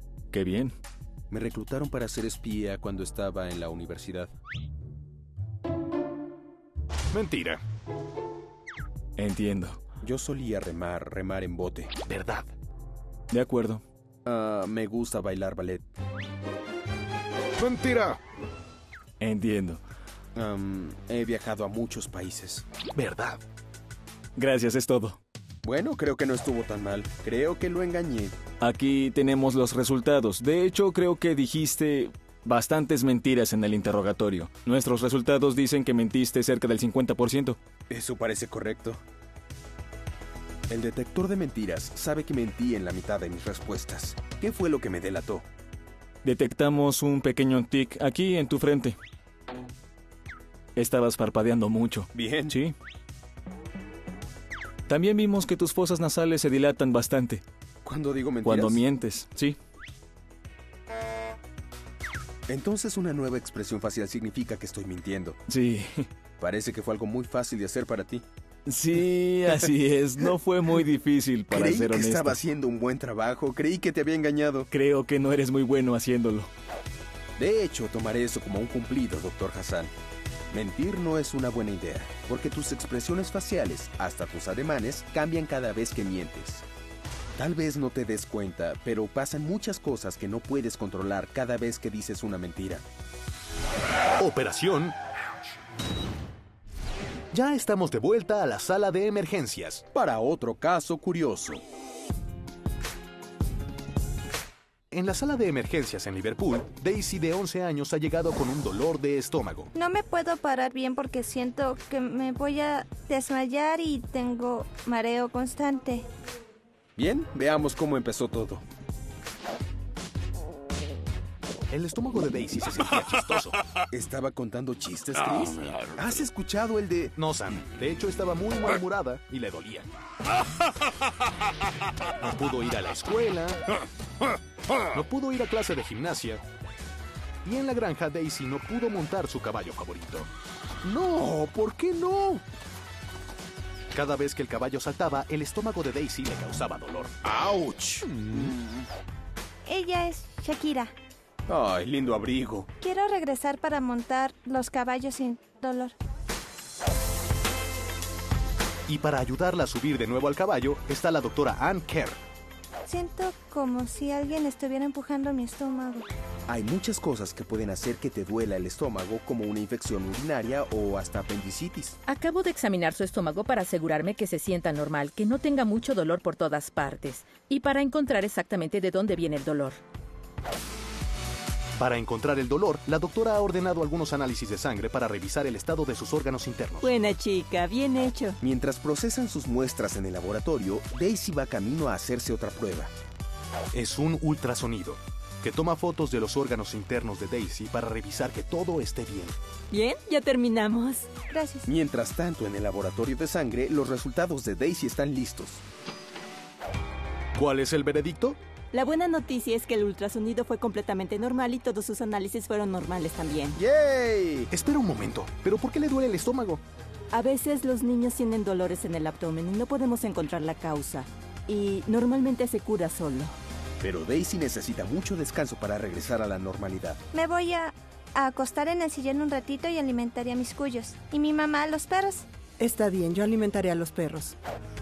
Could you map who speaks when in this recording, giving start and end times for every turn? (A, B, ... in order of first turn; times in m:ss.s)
0:00.3-0:00.7 A
0:01.3-0:04.3 B
0:07.1-0:07.6 C
0:09.2-0:09.8 A
0:10.0-0:11.9 B
0:12.0-0:12.5 C
0:13.3-0:13.8 A
0:14.2-0:15.8 B
0:17.6-0:18.2 C
0:19.2-0:19.8 A
0:20.3-0:22.6 B
0:22.9-0:23.4 C
0:24.4-0:25.2 A
0:25.6-0:28.4 B
0:28.6-0:37.6 A
0:37.9-0:39.0 B
0:40.7-0:45.4 B
0:46.2-0:49.0 A
0:50.8-0:52.7 A
0:52.1-0:52.6 B
0:54.9-0:57.4 A
0:57.8-0:58.8 B
0:58.4-0:59.6 A
1:02.5-1:05.4 B
1:05.5-1:06.0 A
1:06.4-1:08.2 B
1:08.7-1:12.4 A
1:11.5-1:14.7 B
1:14.7-1:16.5 A
1:17.4-1:19.9 B
1:20.5-1:26.6 B
1:27.4-1:32.8 B
1:34.2-1:35.0 C
1:37.3-1:39.8 C
1:39.9-1:41.6 B
1:44.9-1:49.7 C
1:49.7-1:56.1 D
1:57.0-1:58.6 B
2:01.7-2:03.6 C
2:03.9-2:07.1 B
2:07.2-2:09.9 C
2:12.2-2:13.6 C
2:14.9-2:16.4 C
2:17.4-2:20.3 C
2:20.8-2:22.4 B
2:23.9-2:27.1 C
2:27.2-2:28.9 B
2:29.6-2:30.9 D
2:31.5-2:32.7 B
2:32.8-2:35.9 D
2:38.9-2:42.2 C
2:42.8-2:46.1 D
2:46.5-2:52.0 B
2:52.1-2:59.8 E
3:01.8-3:06.9 C
3:06.8-3:08.4 F
3:08.4-3:12.9 B
3:13.7-3:19.3 C
3:19.7-3:21.1 F
3:21.3-3:21.7 D
3:21.6-3:25.6 B
3:27.4-3:28.4 C
3:28.7-3:33.6 F
3:33.6-3:34.5 B
3:34.5-3:36.6 C
3:37.1-3:43.3 F
3:43.8-3:47.0 B
3:47.1-3:52.2 D
3:52.6-3:54.3 F